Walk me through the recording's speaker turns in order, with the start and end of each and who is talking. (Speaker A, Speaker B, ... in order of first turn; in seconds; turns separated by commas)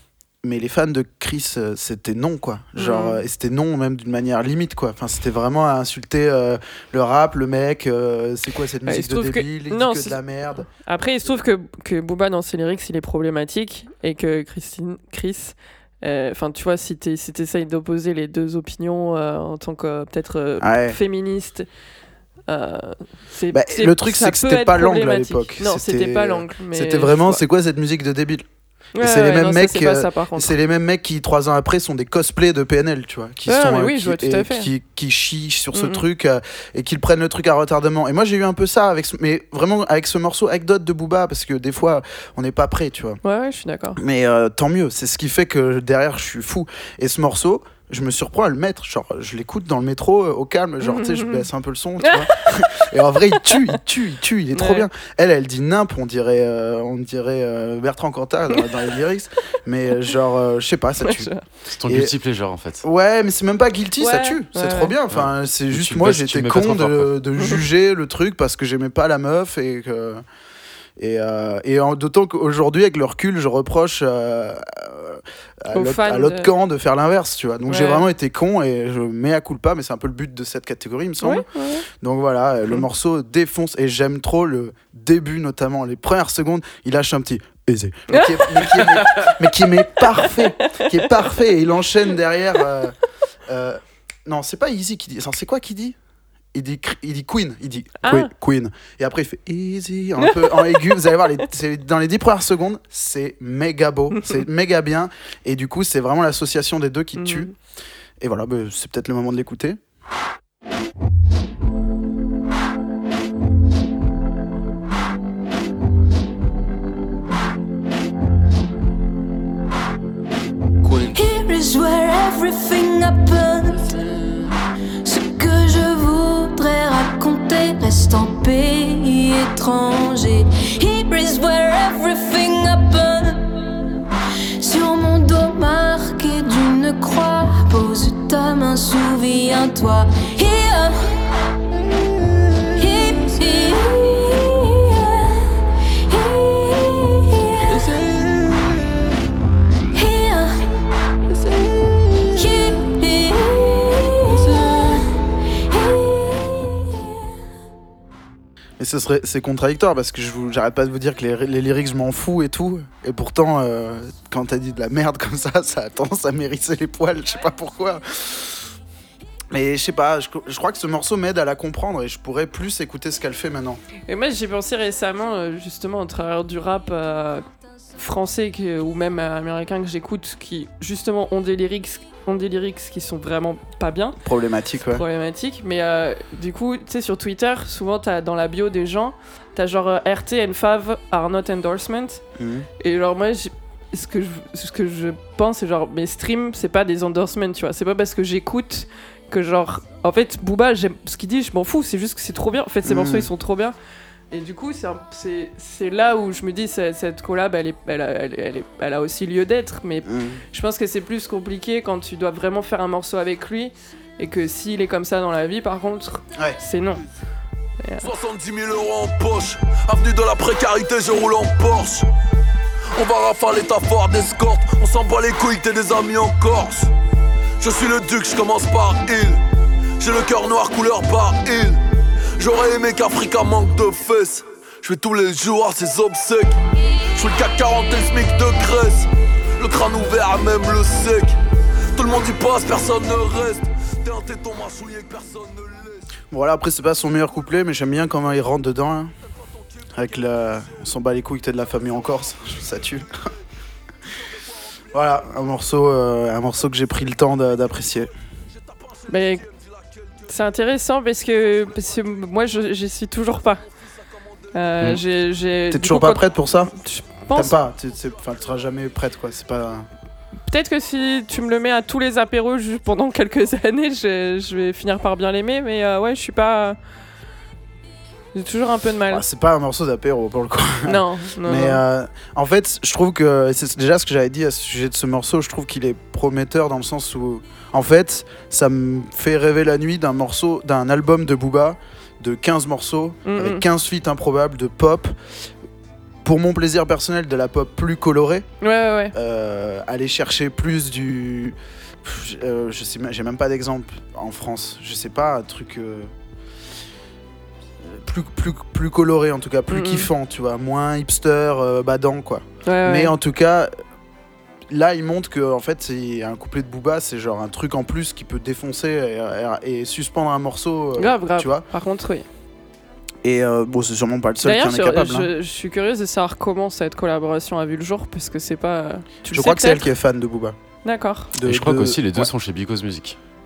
Speaker A: 0.4-10.7, Speaker B: 2.8-3.2, Speaker B: 8.9-10.2, Speaker B: 10.8-21.7, Speaker A: 20.6-21.0, Speaker B: 22.5-27.4, Speaker A: 23.5-28.5, Speaker B: 29.0-30.5, Speaker A: 29.0-43.2, Speaker B: 33.5-34.7, Speaker B: 35.7-36.0, Speaker B: 43.2-44.0, Speaker A: 44.0-61.3, Speaker B: 50.8-51.5, Speaker B: 52.0-52.3, Speaker B: 54.5-54.9, Speaker B: 61.0-61.4, Speaker C: 61.7-62.9, Speaker A: 61.9-62.1, Speaker A: 62.8-70.2, Speaker B: 64.0-65.0, Speaker C: 65.1-67.1, Speaker A: 71.0-93.0, Speaker B: 75.7-76.5, Speaker B: 77.7-78.1, Speaker B: 81.2-81.9, Speaker B: 88.1-89.2, Speaker B: 90.3-91.4, Speaker A: 93.5-96.0, Speaker A: 96.5-107.5, Speaker B: 98.0-98.3, Speaker B: 100.2-100.9, Speaker B: 104.1-104.4, Speaker B: 107.2-107.5, Speaker A: 108.2-109.8, Speaker D: 121.1-124.0, Speaker D: 125.0-133.5, Speaker D: 134.6-141.0, Speaker D: 142.8-148.0, Speaker B: 147.6-148.3, Speaker D: 149.9-150.6, Speaker D: 152.2-155.0, Speaker D: 155.7-157.1, Speaker A: 158.8-168.6, Speaker A: 169.5-173.8, Speaker B: 174.1-177.4, Speaker B: 178.0-184.2, Speaker A: 184.2-185.1, Speaker B: 184.9-192.2, Speaker A: 192.4-192.7, Speaker B: 192.8-203.8, Speaker A: 202.8-203.3, Speaker B: 204.3-217.1, Speaker A: 210.0-210.4, Speaker B: 217.8-218.1, Speaker E: 218.0-222.1, Speaker E: 222.9-226.9, Speaker E: 227.6-229.4, Speaker E: 230.0-231.8, Speaker E: 232.4-236.6, Speaker E: 237.2-241.4, Speaker E: 241.9-246.1, Speaker A: 246.3-249.1, Speaker E: 249.8-250.4, Speaker A: 249.9-253.1, Speaker A: 254.9-258.1, Speaker E: 258.5-260.3, Speaker B: 259.1-259.4, Speaker B: 260.3-263.6, Speaker E: 261.6-262.3, Speaker E: 263.6-264.5, Speaker B: 264.5-267.6, Speaker A: 265.7-266.7, Speaker A: 267.3-269.9, Speaker B: 270.5-276.8, Speaker B: 278.4-279.2, Speaker A: 279.1-295.1, Speaker B: 280.9-281.8, Speaker B: 293.2-293.6, Speaker A: 296.2-298.5, Speaker B: 298.6-299.1, Speaker A: 299.1-306.1, Speaker A: 307.8-313.7, Speaker B: 309.7-310.1, Speaker B: 312.6-313.1, Speaker A: 314.7-321.6, Speaker B: 321.0-322.3, Speaker A: 323.2-325.3, Speaker B: 324.4-329.9, Speaker A: 329.3-330.6, Speaker B: 330.9-331.3, Speaker A: 331.3-332.3, Speaker C: 331.4-333.2